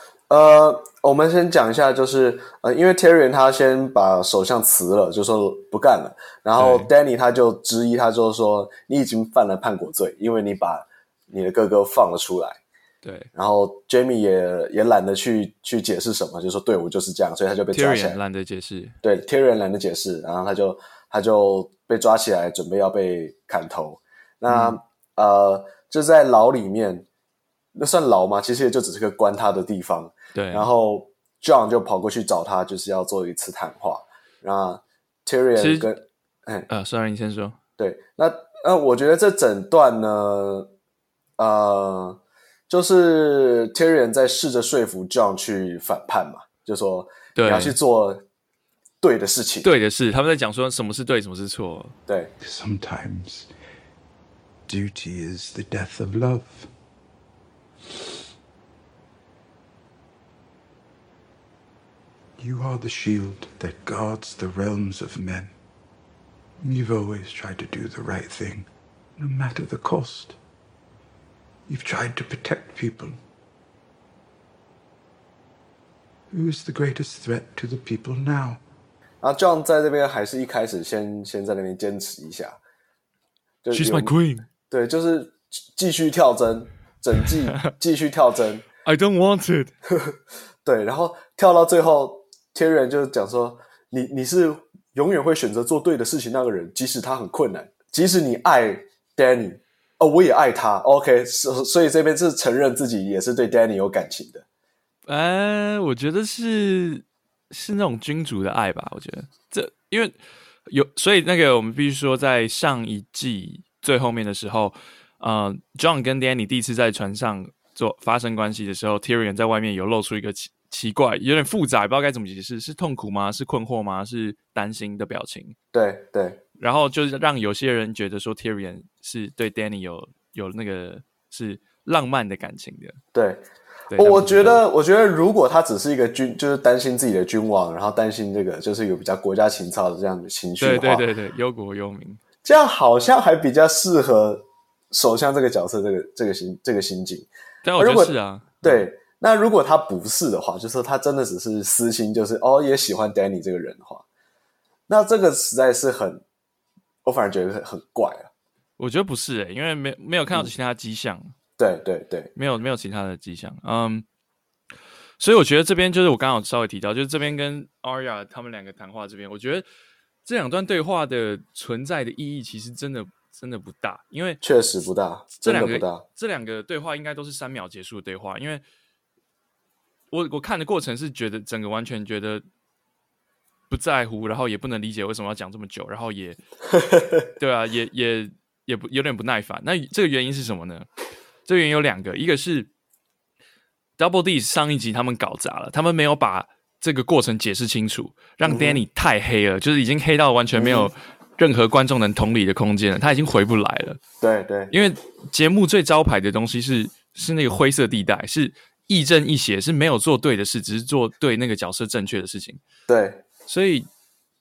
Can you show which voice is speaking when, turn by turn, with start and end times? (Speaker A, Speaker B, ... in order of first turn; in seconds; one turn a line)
Speaker A: 0.3-12.6
Speaker B: 6.5-6.9
Speaker B: 13.0-13.3
Speaker A: 13.3-18.2
Speaker B: 17.7-19.0
Speaker A: 19.0-27.1
Speaker B: 24.5-24.8
Speaker A: 27.7-36.7
Speaker B: 30.3-30.7
Speaker B: 35.5-35.9
Speaker B: 36.7-37.6
Speaker A: 37.8-40.7
Speaker A: 41.4-48.2
Speaker B: 47.3-47.8
Speaker A: 49.0-49.7
Speaker B: 49.6-52.0
Speaker C: 52.4-53.5
Speaker C: 54.7-56.7
Speaker C: 62.4-65.5
Speaker C: 66.6-70.4
Speaker C: 71.7-73.1
Speaker C: 76.3-78.6
Speaker A: 79.2-82.6
Speaker A: 83.6-88.6
Speaker B: 83.7-84.5
Speaker B: 88.8-89.7
Speaker A: 90.6-104.4
Speaker B: 105.0-125.5
Speaker A: 125.7-126.4
Speaker B: 126.6-133.0
Speaker A: 133.1-133.4
Speaker B: 133.9-134.6
Speaker A: 133.9-141.1
Speaker B: 140.6-142.2
Speaker A: 142.4-154.0
Speaker B: 147.6-148.8
Speaker A: 154.9-156.2
Speaker A: 157.0-158.3
Speaker B: 158.8-161.3
Speaker A: 161.6-162.3
Speaker B: 162.3-164.1
Speaker B: 165.2-169.7
Speaker B: 170.2-174.4
Speaker A: 174.4-176.0
Speaker B: 175.4-178.6
Speaker B: 180.1-182.4
Speaker B: 183.7-186.4
Speaker B: 187.4-190.9
Speaker B: 191.4-192.7
Speaker B: 194.0-204.0
Speaker A: 198.4-198.8
Speaker A: 200.5-200.9
Speaker A: 204.2-204.7
Speaker B: 204.7-212.6
Speaker A: 212.9-213.2
Speaker B: 213.5-213.9